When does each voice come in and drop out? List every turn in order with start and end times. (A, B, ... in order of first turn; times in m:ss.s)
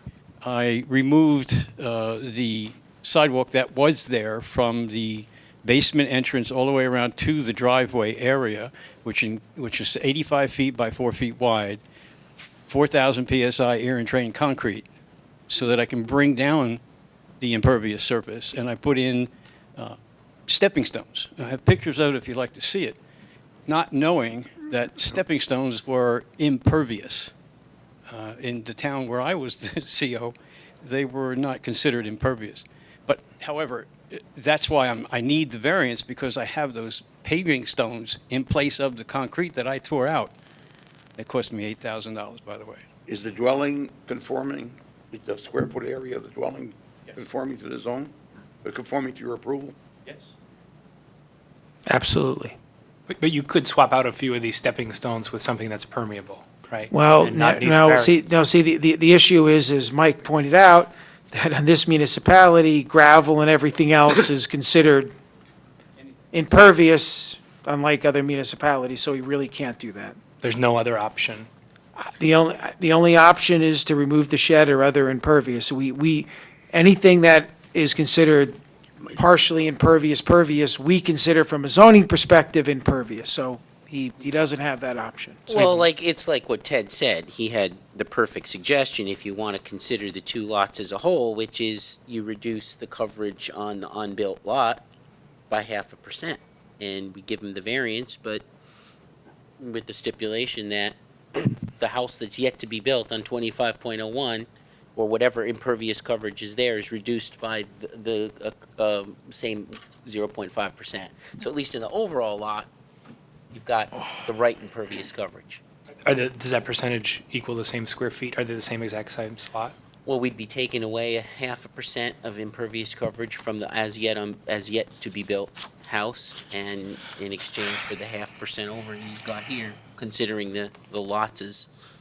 0:00.4-0:11.8 A
0:12.7-0:14.9 A
0:15.5-0:16.8 A
0:17.4-0:23.0 A
0:23.7-0:27.3 A
0:28.1-0:40.3 A
0:41.2-0:42.8 A
0:43.1-0:49.8 B
0:50.0-0:50.3 A
0:51.9-0:52.6 C
0:53.1-0:58.3 D
0:56.9-1:05.1 C
1:06.3-1:10.2 C
1:10.4-1:11.5 D
1:12.0-1:18.6 C
1:19.1-1:25.9 C
1:25.5-1:34.8 E
1:35.5-1:38.4 E
1:39.6-1:52.7 E
1:53.5-1:55.6 E
1:56.1-1:59.8 D
2:00.0-2:11.7 E